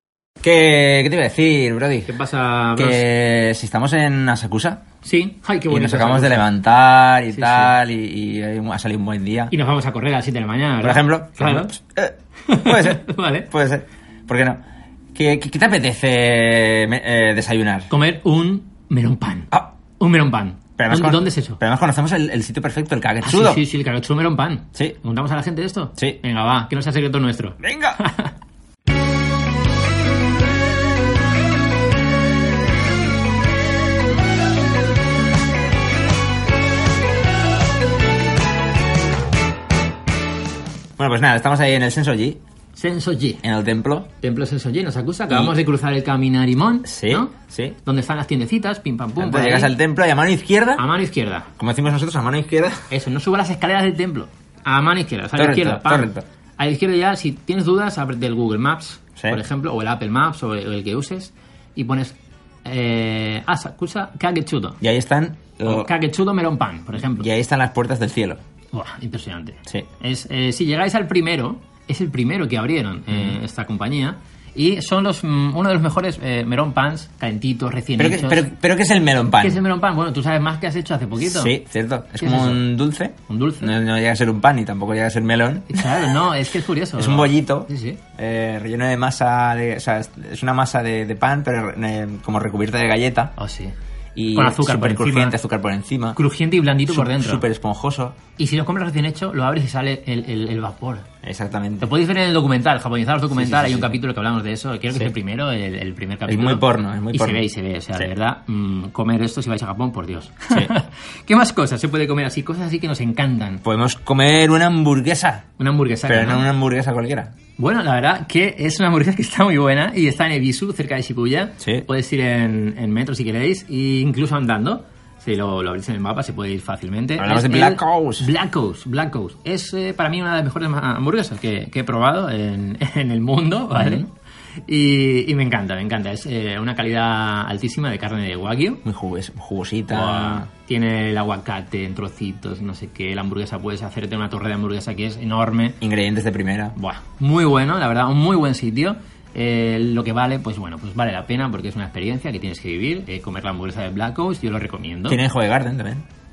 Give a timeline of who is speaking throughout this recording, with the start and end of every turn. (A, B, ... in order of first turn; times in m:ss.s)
0:00.4-0:02.1 A
0:02.0-0:03.0 B
0:02.8-0:04.8 A
0:05.0-0:06.5 B
0:05.7-0:09.5 A
0:07.3-0:07.7 B
0:09.5-0:11.7 B
0:10.8-0:14.6 A
0:12.5-0:13.5 B
0:15.1-0:17.9 A
0:17.9-0:21.6 B
0:20.8-0:23.6 A
0:23.2-0:28.3 B
0:27.6-0:28.0 A
0:41.0-0:42.4 A
0:42.7-0:43.4 B
0:43.4-0:44.1 A
0:44.2-0:49.7 B
0:46.8-0:47.8 A
0:49.2-0:50.8 A
0:50.8-0:51.5 B
0:51.6-0:52.9 A
0:52.9-1:04.8 B
0:55.3-0:56.2 A
1:04.8-1:05.9 A
1:05.6-1:07.3 B
1:07.2-1:08.4 A
1:08.7-1:18.4 B
1:13.1-1:13.4 A
1:18.0-1:19.6 A
1:19.4-1:21.6 B
1:21.2-1:26.1 A
1:22.2-1:22.6 B
1:23.3-1:23.7 B
1:25.7-1:28.0 B
1:27.0-1:33.3 A
1:33.4-1:33.8 B
1:34.2-1:36.2 A
1:34.3-1:35.4 B
1:36.2-1:37.4 B
1:36.9-1:38.2 A
1:38.4-1:41.1 B
1:41.2-1:41.9 A
1:41.8-1:53.6 B
1:43.3-1:43.9 A
1:46.3-1:47.4 A
1:53.6-1:55.5 A
1:55.6-1:56.5 B
1:56.1-1:57.3 A
1:57.6-2:14.1 B
2:01.6-2:01.8 A
2:07.2-2:08.3 A
2:13.7-2:14.0 A
2:14.7-2:18.8 B
2:18.8-2:20.5 A
2:19.9-2:25.8 B
2:25.8-2:26.8 A
2:26.8-2:35.2 B
2:35.1-2:36.0 A